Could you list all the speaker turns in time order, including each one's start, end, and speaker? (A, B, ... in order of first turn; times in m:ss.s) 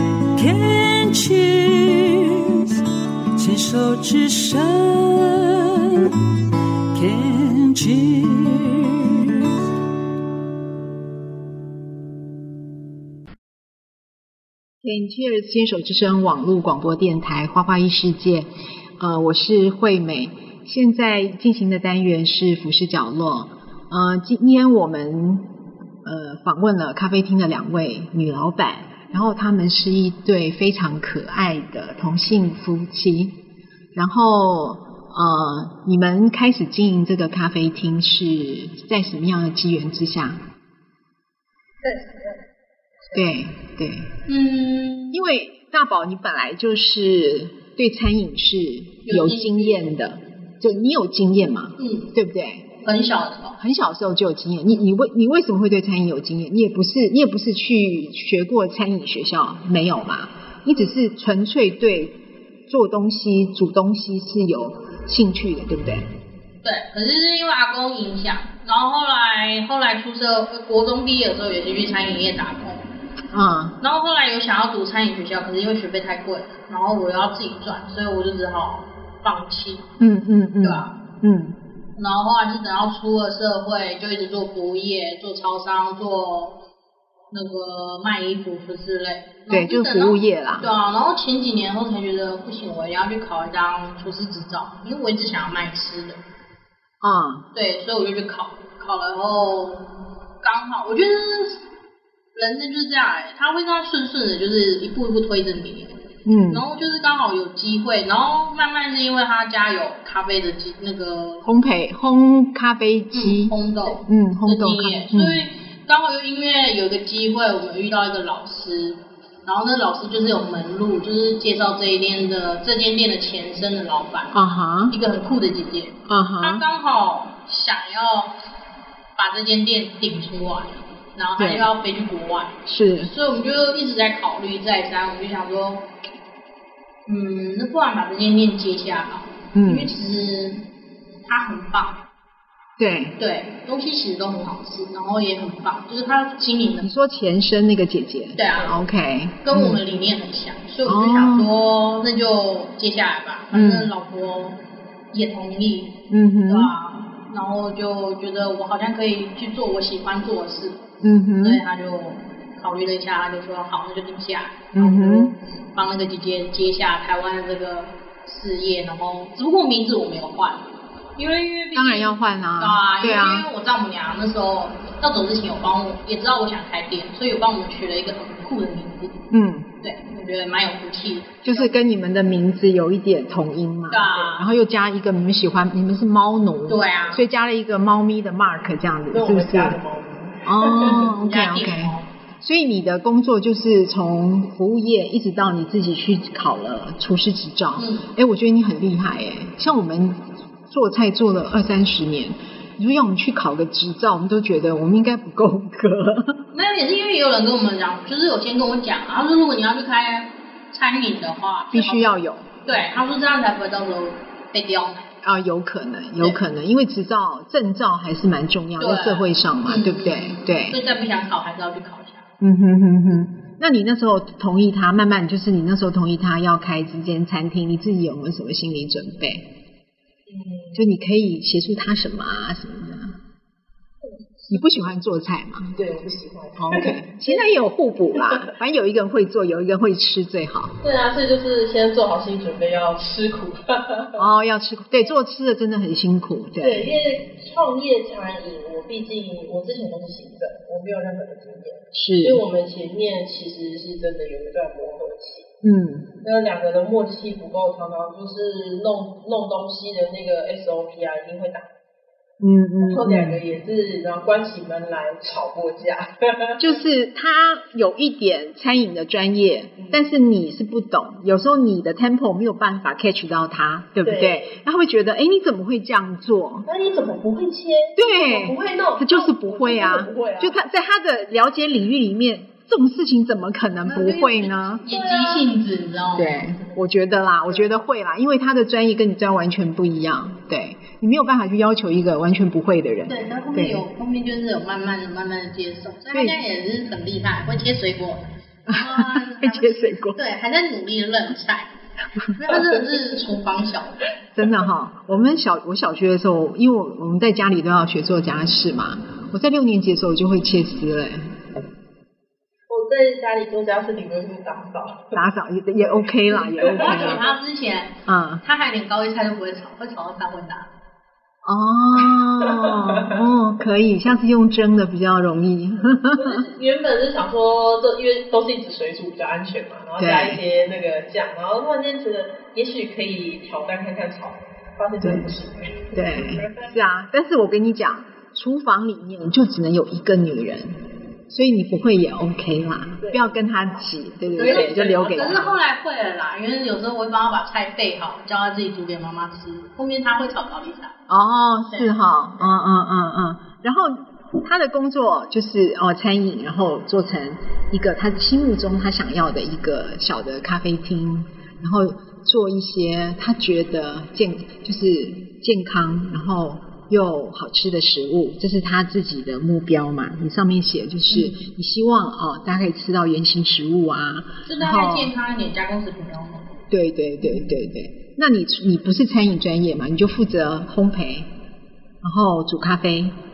0:00.3-0:09.7 A
0:14.8-0:25.5 B
0:26.0-0:33.4 B
0:34.0-0:40.4 B
0:41.8-0:42.4 C
0:43.1-0:44.2 B
0:44.3-0:45.2 D
0:45.1-0:52.7 B
0:49.1-0:49.8 D
0:51.8-0:52.2 D
0:52.8-0:53.6 D
0:53.6-1:06.1 B
1:06.6-1:12.8 D
1:13.3-1:13.8 B
1:13.8-1:19.9 D
1:20.0-1:21.6 B
1:20.6-1:20.9 D
1:22.0-1:26.6 D
1:27.3-1:36.2 D
1:29.5-1:30.7 B
1:37.0-1:37.5 B
1:37.5-1:39.9 D
1:40.4-1:41.6 D
1:42.4-1:51.5 D
1:46.2-1:46.6 B
1:51.4-1:55.4 B
1:53.1-2:04.4 D
2:04.3-2:05.0 B
2:04.9-2:08.4 D
2:06.1-2:06.6 B
2:09.2-2:15.9 D
2:11.4-2:11.7 B
2:12.7-2:13.1 B
2:17.1-2:20.6 D
2:19.5-2:19.9 B
2:21.2-2:22.0 D
2:22.8-2:23.2 B
2:23.2-2:26.9 D
2:26.8-2:29.8 B
2:28.4-2:28.8 D
2:29.4-2:34.6 D
2:30.8-2:31.5 B
2:33.5-2:33.9 B
2:35.1-2:40.9 D
2:36.1-2:36.7 B
2:41.0-2:41.6 B
2:41.4-2:59.2 D
2:44.7-2:45.4 B
2:51.7-2:53.5 B
2:59.3-2:59.7 B
2:59.8-3:01.7 D
3:01.4-3:09.8 B
3:03.9-3:04.5 D
3:06.7-3:07.2 D
3:09.1-3:11.0 C
3:10.4-3:26.4 B
3:10.9-3:12.1 D
3:17.8-3:18.1 D
3:26.5-3:35.1 D
3:31.7-3:32.5 B
3:35.2-3:40.8 B
3:38.8-3:42.2 D
3:42.4-3:49.5 B
3:50.3-3:50.8 C
3:50.8-3:53.2 B
3:54.5-3:55.8 B
3:55.8-3:57.5 C
3:56.6-4:00.8 B
4:00.8-4:04.2 C
4:04.2-4:06.9 B
4:06.6-4:15.5 C
4:11.9-4:12.4 B
4:15.6-4:16.1 B
4:16.2-4:21.7 C
4:22.4-4:23.4 B
4:22.8-4:26.6 C
4:26.6-4:36.7 B
4:34.0-4:34.6 C
4:36.7-4:40.6 C
4:38.0-4:44.8 B
4:43.8-4:46.4 D
4:44.9-4:45.5 C
4:46.2-4:53.9 B
4:53.1-5:01.7 D
4:56.1-4:56.4 B
4:58.7-5:00.2 B
5:02.3-5:04.0 D
5:04.4-5:11.4 B
5:12.7-5:15.2 C
5:15.1-5:17.2 B
5:15.8-5:17.4 C
5:16.8-5:20.7 D
5:18.1-5:18.4 B
5:21.4-5:26.4 B
5:26.2-5:36.6 C
5:30.0-5:30.4 B
5:35.0-5:35.3 B
5:35.9-5:45.6 B
5:43.0-5:43.4 C
5:44.4-5:44.8 C
5:44.4-5:51.0 D
5:51.1-6:15.1 B
5:51.7-5:52.4 D
6:11.1-6:11.4 D
6:14.5-6:16.5 D
6:16.7-6:21.3 B
6:17.2-6:17.5 D
6:22.0-6:23.2 B